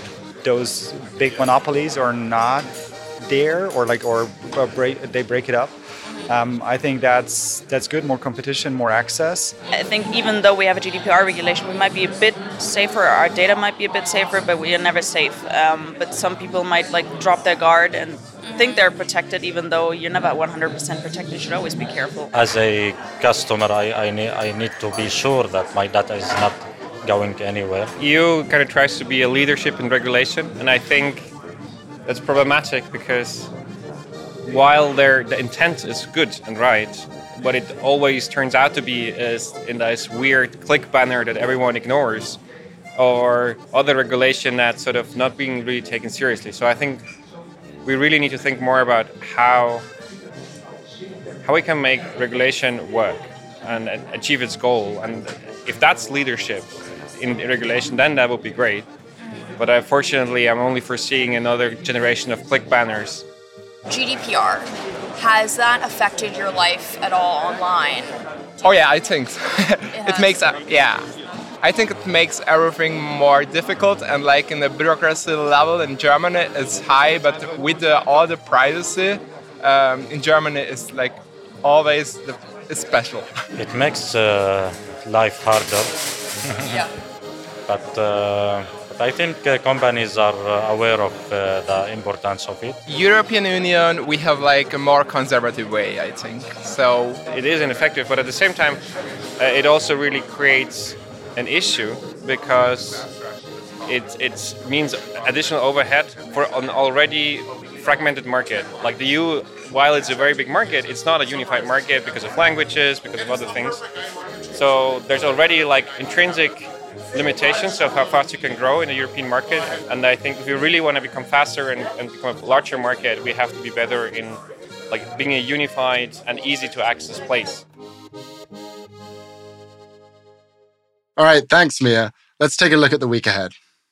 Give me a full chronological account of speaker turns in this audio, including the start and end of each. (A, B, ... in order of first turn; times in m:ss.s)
0:00.4-0:02.7 A
0:03.2-0:05.7 A
0:06.3-0:09.5 A
0:09.7-0:22.3 B
0:22.3-0:27.9 C
0:28.0-0:31.3 D
0:32.0-0:33.5 D
0:34.4-0:42.4 D
0:43.0-0:47.0 D
0:47.8-0:49.8 D
0:51.4-0:58.8 D
0:59.6-1:03.2 D
1:03.9-1:08.1 B
1:08.6-1:11.0 E
1:09.9-1:10.5 B
1:11.6-1:23.3 E
1:23.6-1:25.9 C
1:26.4-1:26.8 C
1:27.6-1:32.8 C
1:32.8-1:37.2 E
1:37.3-1:38.8 D
1:39.4-1:43.0 D
1:43.9-1:53.8 D
1:54.5-2:07.6 D
2:11.2-2:13.5 F